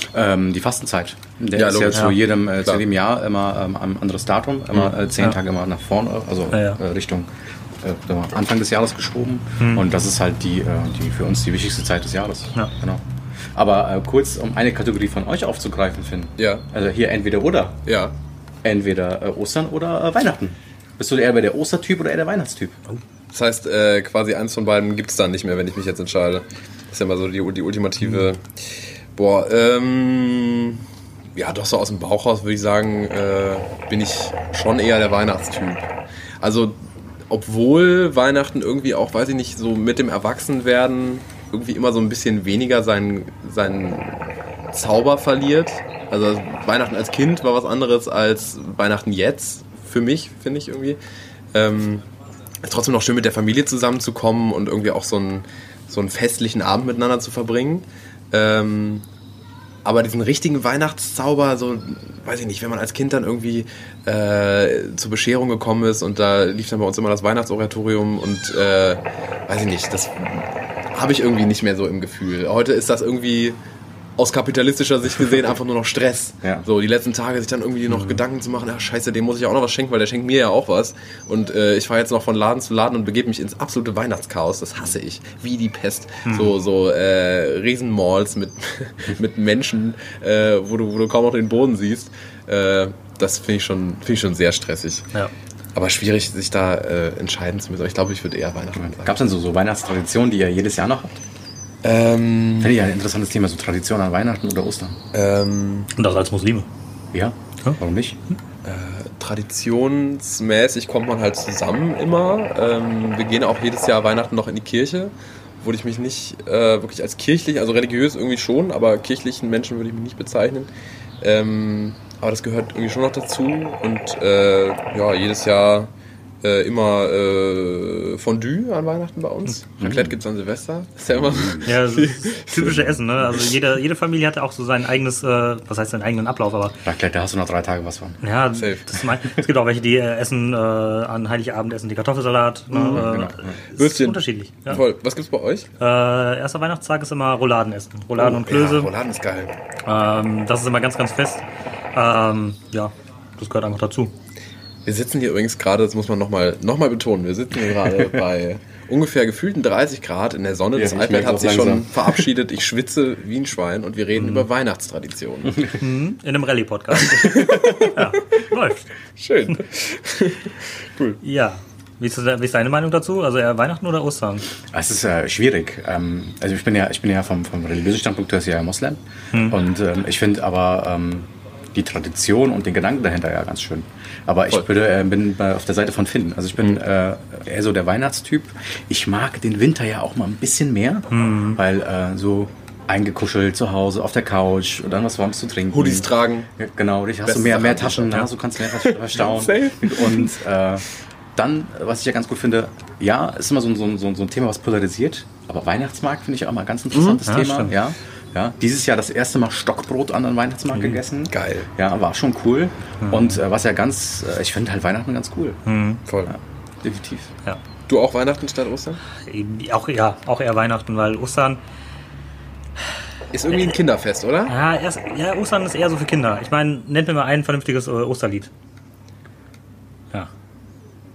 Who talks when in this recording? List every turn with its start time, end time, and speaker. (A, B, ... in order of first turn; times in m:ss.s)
0:00.1-0:07.3 A
0:01.5-0:02.8 B
0:06.5-0:06.8 C
0:07.8-0:13.0 A
0:09.6-0:09.8 C
0:13.5-0:17.8 A
0:16.4-0:16.6 B
0:17.8-0:18.1 B
0:18.6-0:22.8 A
0:23.3-0:28.6 B
0:29.2-0:30.8 B
0:31.4-0:35.9 B
0:36.4-0:36.8 B
0:37.3-0:51.0 B
0:51.5-0:52.0 B
0:52.6-0:59.0 B
0:59.8-1:13.6 B
1:14.2-1:35.1 B
1:26.2-1:26.5 C
1:35.7-1:39.2 B
1:38.8-1:41.2 A
1:41.8-1:42.7 B
1:42.6-1:45.0 A
1:45.1-1:45.9 B
1:45.9-1:46.7 C
1:47.1-1:48.2 A
1:48.6-2:00.7 B
2:01.2-2:05.9 B
2:06.4-2:12.9 B
2:09.8-2:10.1 A
2:11.3-2:11.6 A
2:11.6-2:16.8 C
2:16.8-2:18.2 A
2:18.2-2:24.8 C
2:18.5-2:18.8 B
2:22.7-2:23.0 B
2:22.9-2:23.6 A
2:23.7-2:25.7 B
2:25.8-2:28.9 C
2:28.2-2:29.5 B
2:29.8-2:34.1 C
2:34.8-2:45.7 B
2:40.7-2:42.2 A
2:45.5-2:45.8 A
2:45.8-2:48.9 C
2:47.0-2:48.1 B
2:49.2-2:51.2 B
2:51.2-2:54.4 C
2:54.7-3:20.8 A
2:59.3-2:59.6 C
3:11.1-3:11.6 C
3:15.7-3:16.5 B
3:17.2-3:20.3 B
3:21.4-3:35.6 A
3:26.9-3:27.2 B
3:27.2-3:27.7 C
3:30.7-3:31.0 C
3:31.3-3:31.7 B
3:33.0-3:33.4 C
3:35.6-3:36.0 C
3:36.0-3:36.3 B
3:36.3-3:37.3 A
3:37.9-3:39.0 B
3:39.2-3:41.6 C
3:43.3-3:44.5 B
3:44.5-3:48.5 C